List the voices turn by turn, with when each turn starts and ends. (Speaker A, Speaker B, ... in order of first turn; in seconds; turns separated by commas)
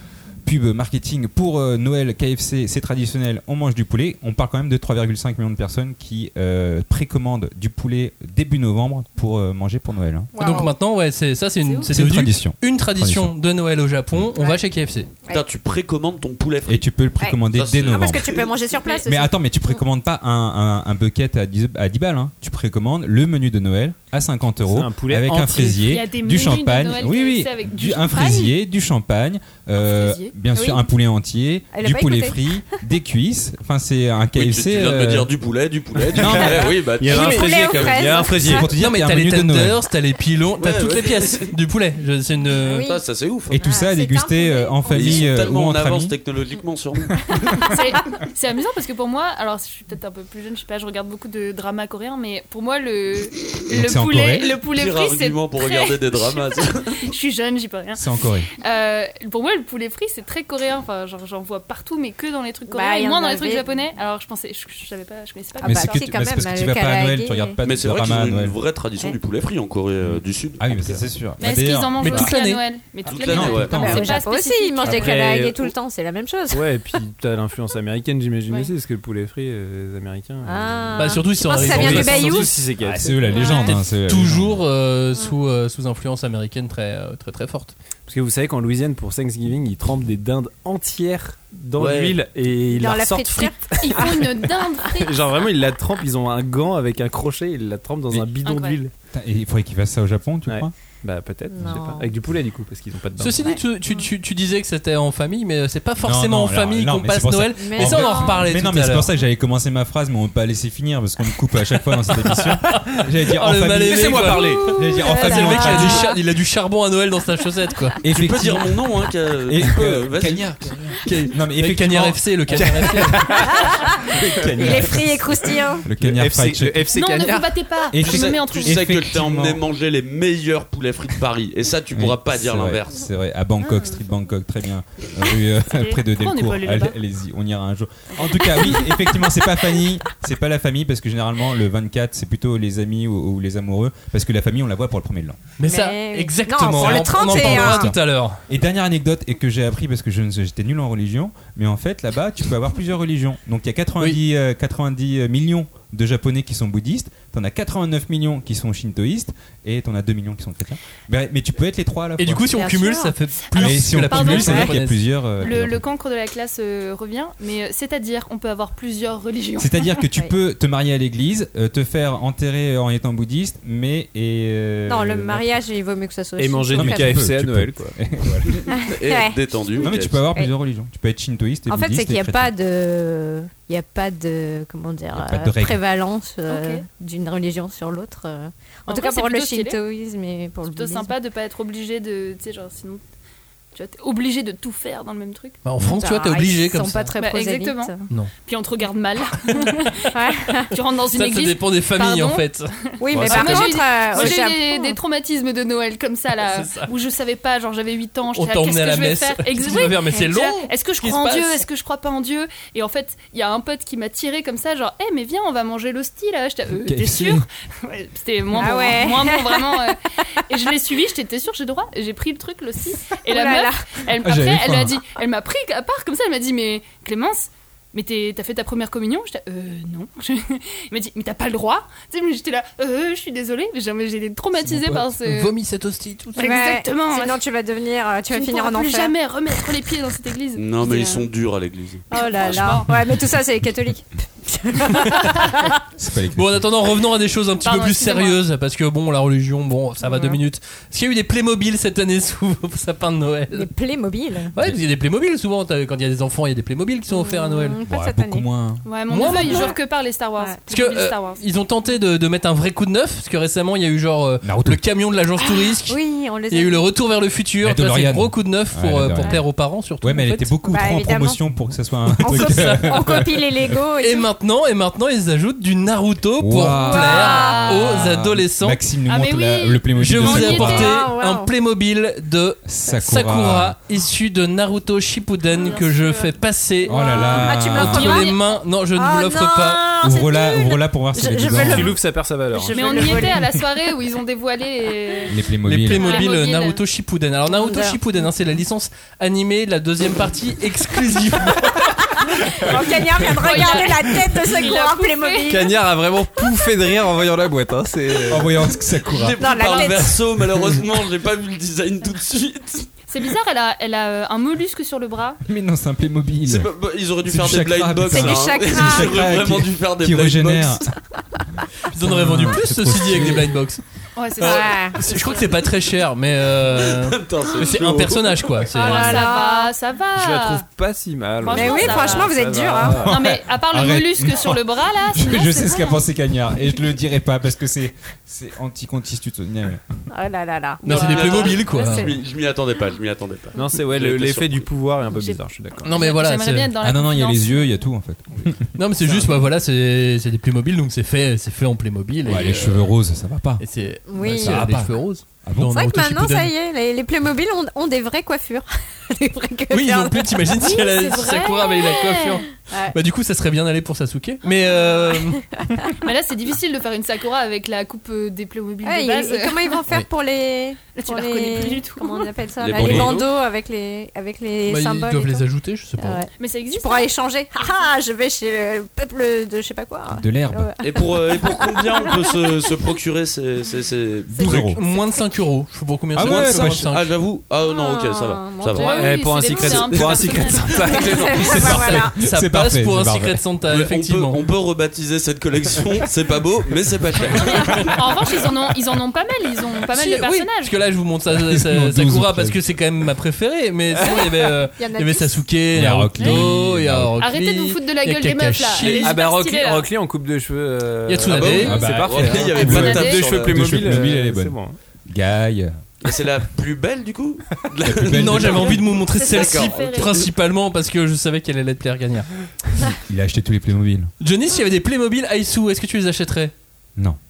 Speaker A: 0.5-10.3, Speaker B: 10.3-10.7, Speaker C: 10.4-15.1, Speaker B: 11.7-11.9, Speaker A: 11.9-13.3, Speaker B: 14.4-14.6, Speaker D: 15.3-16.9, Speaker A: 16.7-18.4, Speaker B: 17.2-19.8, Speaker D: 17.5-18.5, Speaker A: 19.0-35.3, Speaker E: 24.7-26.0, Speaker F: 25.9-28.5, Speaker B: 29.9-30.9, Speaker B: 31.7-32.5, Speaker D: 34.4-38.3, Speaker A: 36.1-36.8, Speaker E: 37.0-38.7, Speaker B: 37.0-38.7, Speaker A: 38.4-39.8, Speaker C: 38.7-42.8, Speaker D: 40.6-41.5, Speaker B: 42.6-43.0, Speaker D: 42.7-43.6, Speaker A: 43.5-46.1, Speaker B: 43.6-45.3, Speaker D: 44.9-47.8, Speaker F: 47.7-58.0, Speaker A: 53.7-54.6, Speaker D: 54.7-57.0, Speaker A: 58.0-58.5, Speaker F: 58.6-66.1, Speaker B: 62.7-63.7, Speaker B: 65.6-67.6, Speaker A: 65.6-68.6, Speaker D: 67.6-71.1, Speaker A: 70.0-72.3, Speaker F: 71.4-75.2, Speaker C: 72.0-72.6, Speaker D: 73.1-73.8, Speaker A: 73.2-74.1, Speaker B: 73.7-76.7, Speaker E: 74.8-75.7, Speaker E: 76.5-83.5, Speaker B: 80.5-82.7, Speaker C: 81.0-82.5, Speaker A: 82.8-84.6, Speaker B: 83.3-83.8, Speaker C: 83.6-87.7, Speaker E: 88.1-98.9, Speaker D: 91.8-92.2, Speaker B: 92.7-94.3, Speaker F: 93.8-95.2, Speaker F: 98.4-98.8, Speaker A: 99.1-100.7, Speaker E: 100.5-103.6, Speaker B: 101.5-102.1, Speaker C: 103.2-109.1, Speaker B: 103.4-104.1, Speaker A: 106.0-116.1, Speaker B: 107.6-108.5, Speaker C: 112.3-118.0, Speaker B: 114.4-116.2, Speaker A: 118.0-118.8, Speaker D: 118.1-120.5, Speaker A: 119.5-126.9, Speaker C: 121.0-123.3, Speaker E: 122.6-123.5, Speaker B: 123.5-125.9, Speaker E: 126.0-127.6, Speaker F: 126.9-128.8, Speaker A: 127.9-129.6, Speaker D: 128.0-133.0, Speaker A: 131.9-145.4, Speaker F: 133.6-133.9, Speaker F: 135.6-137.0, Speaker C: 145.6-148.4, Speaker B: 145.7-147.9, Speaker A: 146.8-162.5, Speaker C: 162.2-165.0, Speaker B: 162.5-163.2, Speaker F: 163.5-164.7, Speaker A: 163.6-165.8, Speaker B: 164.3-164.7, Speaker F: 165.4-170.0, Speaker A: 169.6-175.4, Speaker B: 174.9-177.3, Speaker E: 176.4-178.0, Speaker A: 176.7-178.6, Speaker D: 178.5-180.2, Speaker B: 178.7-180.5, Speaker A: 179.8-182.5, Speaker B: 181.7-191.1, Speaker A: 185.1-185.8, Speaker F: 186.5-186.8, Speaker F: 188.9-189.8, Speaker F: 190.7-193.0, Speaker F: 193.7-195.6, Speaker C: 195.7-197.1, Speaker B: 195.9-198.1, Speaker F: 197.2-197.9, Speaker F: 198.4-235.5, Speaker B: 200.1-200.7, Speaker C: 201.1-202.7, Speaker B: 203.0-205.0, Speaker E: 203.1-203.8, Speaker C: 206.4-206.9, Speaker C: 208.3-211.6, Speaker B: 209.8-210.4, Speaker A: 216.8-217.5, Speaker B: 218.5-219.9, Speaker B: 223.3-224.0, Speaker A: 224.2-225.0, Speaker A: 234.7-235.0, Speaker C: 234.9-236.6, Speaker F: 236.4-237.4, Speaker B: 236.4-239.1, Speaker F: 238.3-241.3, Speaker D: 240.6-242.1, Speaker B: 242.1-245.8, Speaker F: 242.4-242.9, Speaker A: 246.0-246.6, Speaker C: 246.3-253.7, Speaker F: 247.6-248.4, Speaker B: 250.0-250.4, Speaker B: 253.5-254.6, Speaker C: 254.5-257.8, Speaker B: 257.1-258.5, Speaker A: 257.9-258.8, Speaker F: 258.9-261.4, Speaker C: 259.1-259.7, Speaker B: 259.3-259.8, Speaker C: 260.7-266.0, Speaker A: 264.4-264.8, Speaker B: 265.4-266.9, Speaker C: 266.5-270.6, Speaker A: 267.6-269.5, Speaker A: 270.0-273.8, Speaker B: 270.6-271.4, Speaker B: 272.2-274.3, Speaker C: 272.3-272.8, Speaker C: 274.0-278.8, Speaker A: 276.4-281.0, Speaker B: 276.7-277.9, Speaker F: 277.2-278.0, Speaker F: 279.1-280.8, Speaker C: 280.0-289.9, Speaker B: 280.3-281.5, Speaker A: 282.6-283.8, Speaker F: 285.5-286.3, Speaker B: 286.9-293.6, Speaker A: 286.9-288.3, Speaker A: 290.0-292.0, Speaker E: 291.6-293.3, Speaker F: 292.7-295.4, Speaker A: 295.3-296.2, Speaker C: 295.6-302.1, Speaker F: 295.9-296.8, Speaker B: 297.5-298.0, Speaker B: 302.1-306.5, Speaker F: 303.3-305.7, Speaker E: 305.5-308.6, Speaker A: 308.3-309.4, Speaker D: 309.0-312.9, Speaker B: 309.4-310.2, Speaker F: 313.1-315.4, Speaker A: 315.4-316.7, Speaker D: 316.4-320.9, Speaker A: 317.2-320.9, Speaker B: 318.1-319.2, Speaker C: 321.9-323.8, Speaker A: 321.9-323.5, Speaker F: 324.2-325.7, Speaker C: 324.4-329.3, Speaker B: 324.4-325.0, Speaker D: 326.6-328.7, Speaker F: 328.7-330.6, Speaker B: 328.8-329.7, Speaker E: 330.1-333.2, Speaker F: 331.4-332.4, Speaker B: 331.5-333.1, Speaker A: 332.9-339.9, Speaker F: 333.0-335.9, Speaker B: 335.4-336.0, Speaker B: 340.1-342.2, Speaker C: 340.8-342.1, Speaker D: 340.9-344.7, Speaker E: 343.5-346.0, Speaker F: 345.1-347.7, Speaker C: 345.8-346.7, Speaker A: 346.8-348.6, Speaker C: 348.8-352.9, Speaker A: 352.2-353.6, Speaker C: 353.6-356.5, Speaker B: 354.1-354.7, Speaker A: 354.3-355.8, Speaker B: 355.6-363.0, Speaker C: 359.7-365.4, Speaker F: 360.7-362.1, Speaker B: 364.7-365.9, Speaker F: 366.0-369.8, Speaker B: 368.8-375.4, Speaker F: 371.0-372.3, Speaker D: 372.6-373.3, Speaker A: 372.7-373.1, Speaker C: 374.7-376.2, Speaker B: 376.0-382.4, Speaker F: 376.4-377.1, Speaker A: 380.1-380.7, Speaker D: 380.8-384.8, Speaker A: 384.4-384.8, Speaker B: 384.4-385.2, Speaker C: 384.5-387.1, Speaker A: 386.1-386.9, Speaker D: 386.2-390.2, Speaker B: 387.7-389.6, Speaker F: 388.8-391.3, Speaker E: 388.8-391.8, Speaker B: 390.9-392.2, Speaker A: 391.5-393.4, Speaker C: 391.5-394.4, Speaker D: 393.7-398.0, Speaker F: 397.9-400.8, Speaker C: 399.9-409.2, Speaker A: 401.3-402.6, Speaker B: 404.8-405.5, Speaker A: 405.7-407.1, Speaker F: 407.2-409.9, Speaker E: 408.8-414.8, Speaker C: 411.1-411.8, Speaker D: 411.3-414.1, Speaker A: 411.6-414.6, Speaker F: 412.3-413.3, Speaker A: 415.1-415.7, Speaker D: 416.0-420.3, Speaker A: 417.8-418.8, Speaker C: 418.1-422.3, Speaker F: 419.1-420.1, Speaker A: 423.0-424.1, Speaker C: 424.2-426.5